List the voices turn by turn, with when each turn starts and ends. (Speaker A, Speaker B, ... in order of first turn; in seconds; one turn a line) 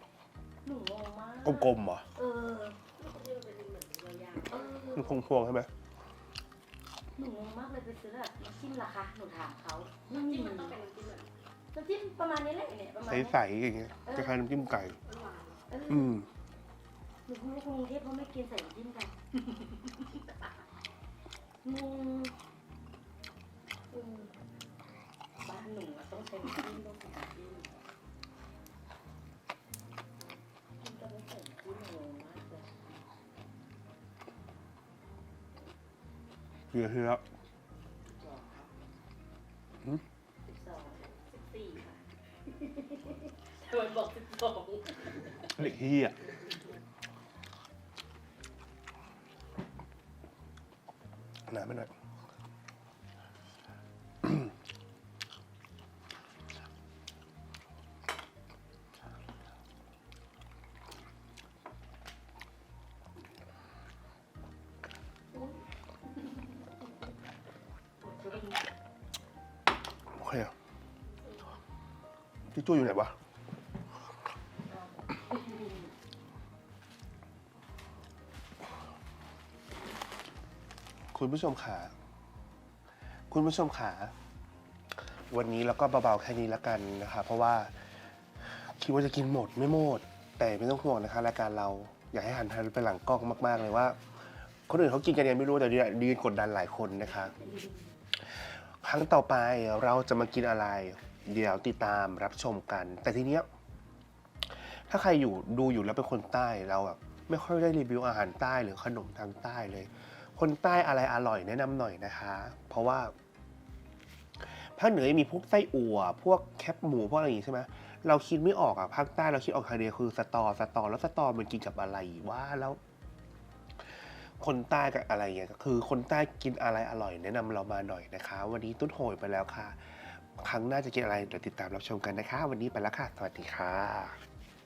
Speaker A: 0.6-2.8
Speaker B: 1.4-2.1
Speaker C: 3.0-5.0
Speaker A: 4.4-5.2
Speaker B: 4.9-5.7
Speaker A: 7.2-10.8
Speaker C: 10.1-11.3
Speaker A: 11.7-13.4
Speaker B: 13.1-15.0
Speaker A: 14.1-14.4
Speaker C: 15.0-15.6
Speaker A: 15.7-16.2
Speaker B: 15.9-16.3
Speaker A: 17.3-20.2
Speaker A: 21.6-22.4
Speaker A: 23.9-24.3
Speaker A: 25.4-27.7
Speaker A: 30.8-33.0
Speaker B: 36.7-37.2
Speaker A: 40.5-41.1
Speaker C: 41.0-42.0
Speaker C: 42.5-45.5
Speaker B: 45.5-46.2
Speaker B: 51.5-51.9
Speaker A: 65.3-65.6
Speaker A: 68.0-68.6
Speaker B: 70.1-70.5
Speaker B: 72.5-73.1
Speaker A: 74.7-75.9
Speaker B: 81.1-81.9
Speaker B: 83.3-84.1
Speaker B: 85.3-87.8
Speaker B: 88.4-94.0
Speaker B: 94.7-97.3
Speaker B: 98.2-103.5
Speaker B: 104.5-113.1
Speaker B: 114.4-122.8
Speaker B: 124.4-134.2